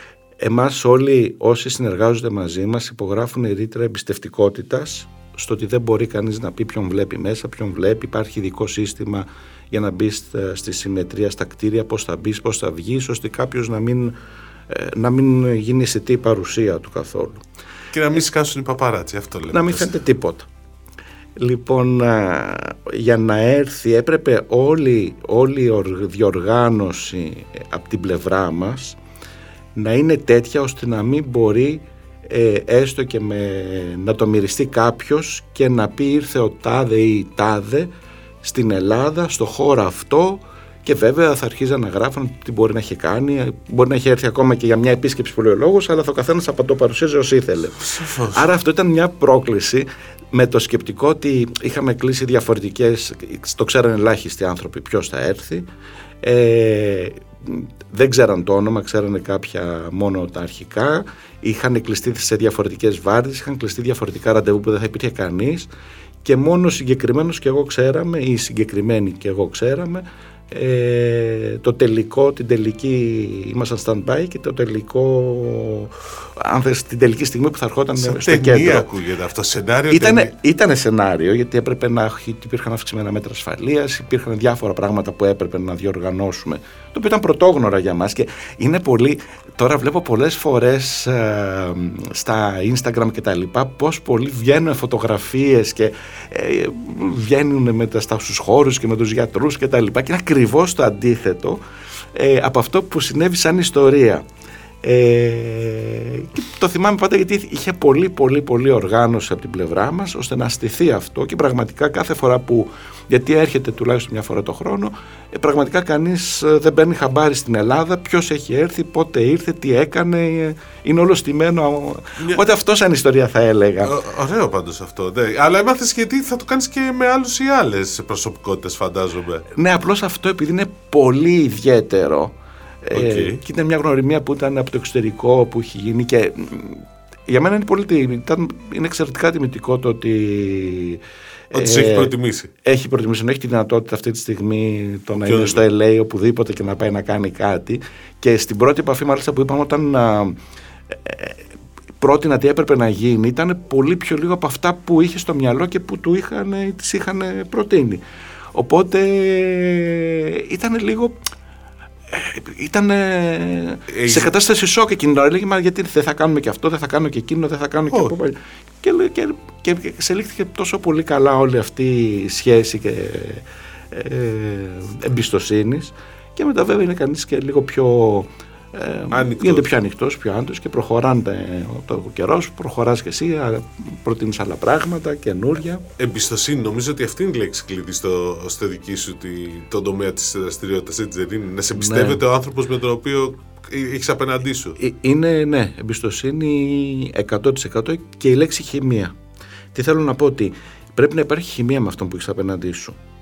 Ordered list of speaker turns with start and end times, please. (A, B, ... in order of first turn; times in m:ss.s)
0:00.4-0:14.2 A
0:14.7-0:17.4 A
0:17.9-0:20.0 B
0:19.5-0:20.5 A
0:21.4-0:29.0 A
0:29.8-0:37.9 A
0:38.4-0:55.7 A
0:47.8-0:48.5 B
0:56.2-1:05.7 A
1:06.2-1:18.9 A
1:18.0-1:20.3 B
1:19.9-1:41.6 A
1:42.1-1:44.2 A
1:44.8-2:04.0 A
2:03.8-2:09.4 B
2:09.5-2:30.4 A
2:12.9-2:13.4 B
2:21.5-2:22.5 B
2:25.2-2:25.6 B
2:30.9-2:31.4 A
2:32.0-2:38.0 A
2:38.5-2:41.2 A
2:42.1-3:05.8 A
2:43.9-2:44.4 B
2:59.1-2:59.7 B
3:06.0-3:14.8 B
3:11.7-3:12.2 A
3:14.8-3:19.1 A
3:19.7-3:23.0 A